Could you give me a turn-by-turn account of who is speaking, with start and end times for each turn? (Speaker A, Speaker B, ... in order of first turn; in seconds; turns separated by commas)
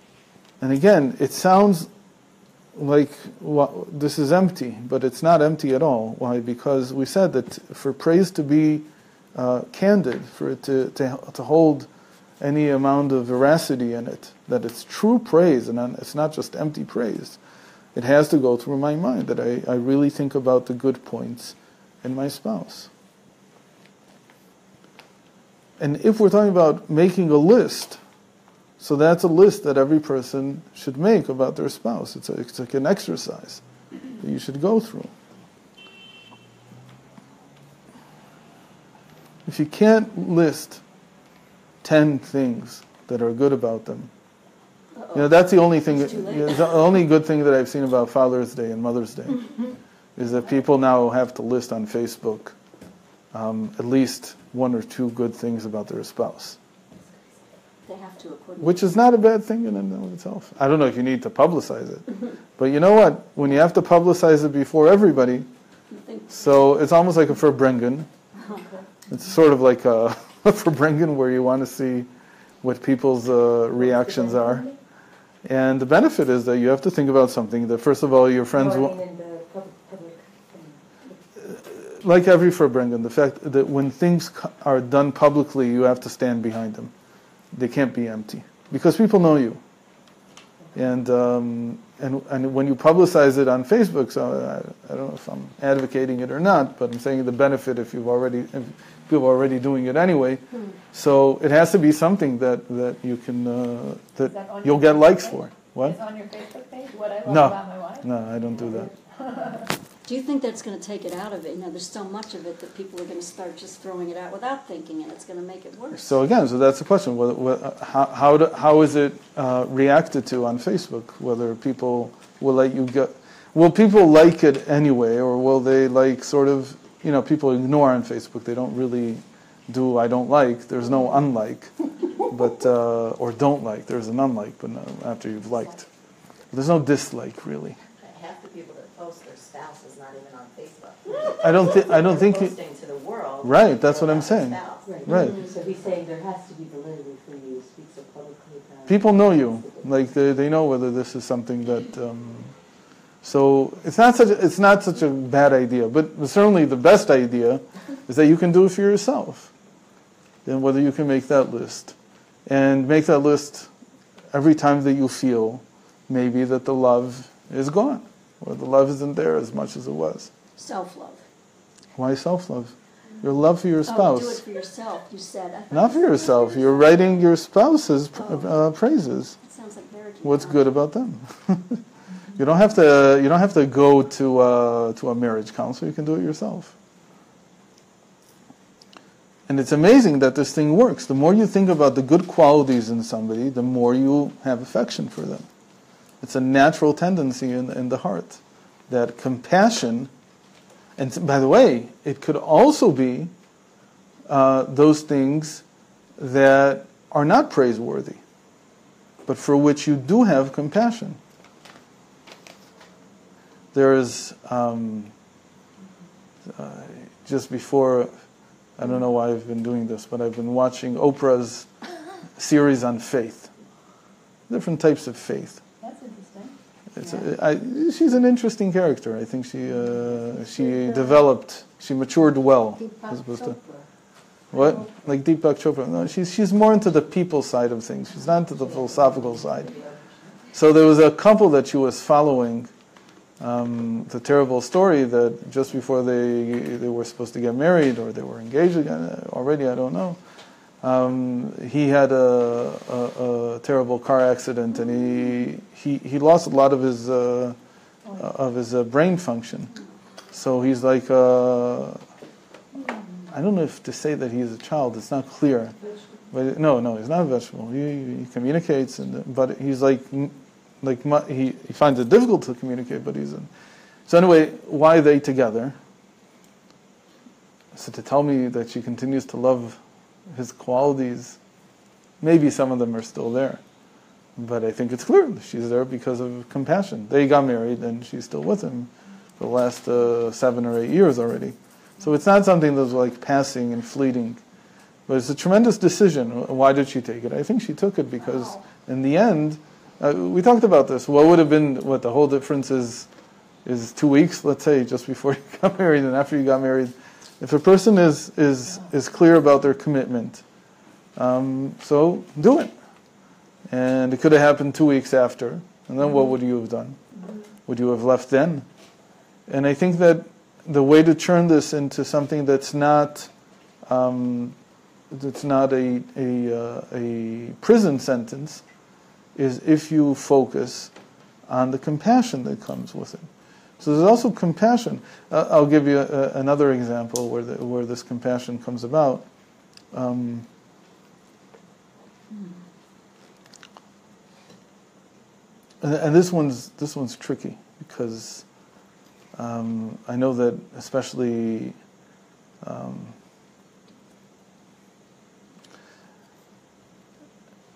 Speaker A: 0.6-1.9, Speaker A: 2.8-11.9, Speaker A: 12.4-17.4, Speaker A: 17.9-22.9, Speaker A: 25.8-28.0, Speaker A: 28.8-33.6, Speaker A: 34.2-35.1, Speaker A: 39.5-40.8, Speaker A: 41.8-44.1, Speaker B: 45.0-47.0, Speaker A: 45.1-52.6, Speaker A: 53.3-56.6, Speaker B: 57.9-58.9, Speaker A: 58.6-65.5, Speaker B: 65.9-66.3, Speaker A: 66.3-68.1, Speaker A: 69.1-72.1, Speaker A: 72.6-74.7, Speaker C: 74.2-74.5, Speaker A: 75.5-79.0, Speaker C: 78.5-80.8, Speaker A: 81.4-86.9, Speaker A: 87.5-89.6, Speaker A: 90.7-106.0, Speaker D: 104.3-105.4, Speaker D: 105.9-108.0, Speaker A: 107.2-108.9, Speaker B: 110.0-116.2, Speaker A: 115.9-135.9, Speaker A: 136.5-137.8, Speaker E: 138.0-144.9, Speaker A: 141.3-142.6, Speaker A: 143.4-145.4, Speaker C: 144.9-149.9, Speaker B: 145.1-145.5, Speaker A: 148.9-152.5, Speaker A: 153.2-159.5, Speaker A: 160.4-161.9, Speaker A: 162.5-163.7, Speaker A: 164.3-170.3, Speaker B: 170.6-171.2, Speaker A: 172.0-174.4, Speaker B: 173.9-177.0, Speaker A: 175.7-179.4, Speaker B: 178.2-178.5, Speaker B: 179.4-180.8, Speaker A: 180.2-181.8, Speaker A: 182.4-186.8, Speaker A: 189.5-195.5, Speaker A: 196.2-200.1, Speaker A: 201.0-203.3, Speaker A: 204.3-205.6, Speaker A: 206.2-208.2, Speaker A: 209.3-211.2, Speaker A: 213.7-215.1, Speaker A: 216.5-218.1, Speaker A: 218.8-221.7, Speaker A: 222.4-223.5, Speaker A: 224.5-225.6, Speaker D: 225.8-226.5, Speaker A: 226.9-233.6, Speaker C: 233.1-233.8, Speaker A: 234.5-239.8, Speaker A: 240.5-242.7, Speaker A: 243.4-250.2, Speaker A: 250.8-257.6, Speaker A: 258.1-259.8, Speaker A: 260.3-262.0, Speaker A: 263.3-265.8, Speaker A: 266.3-273.5, Speaker A: 274.1-275.8, Speaker A: 277.7-279.8, Speaker A: 280.3-281.4, Speaker A: 282.2-283.6, Speaker A: 284.4-294.4, Speaker A: 295.1-303.1, Speaker A: 303.6-310.4, Speaker A: 311.2-312.7, Speaker A: 313.7-317.0, Speaker A: 317.7-318.7, Speaker A: 319.5-323.3, Speaker A: 323.9-324.6, Speaker A: 325.1-328.6, Speaker A: 329.4-330.9, Speaker A: 331.5-339.2, Speaker A: 339.9-340.5, Speaker A: 345.8-348.4, Speaker A: 349.4-351.8, Speaker A: 352.6-353.2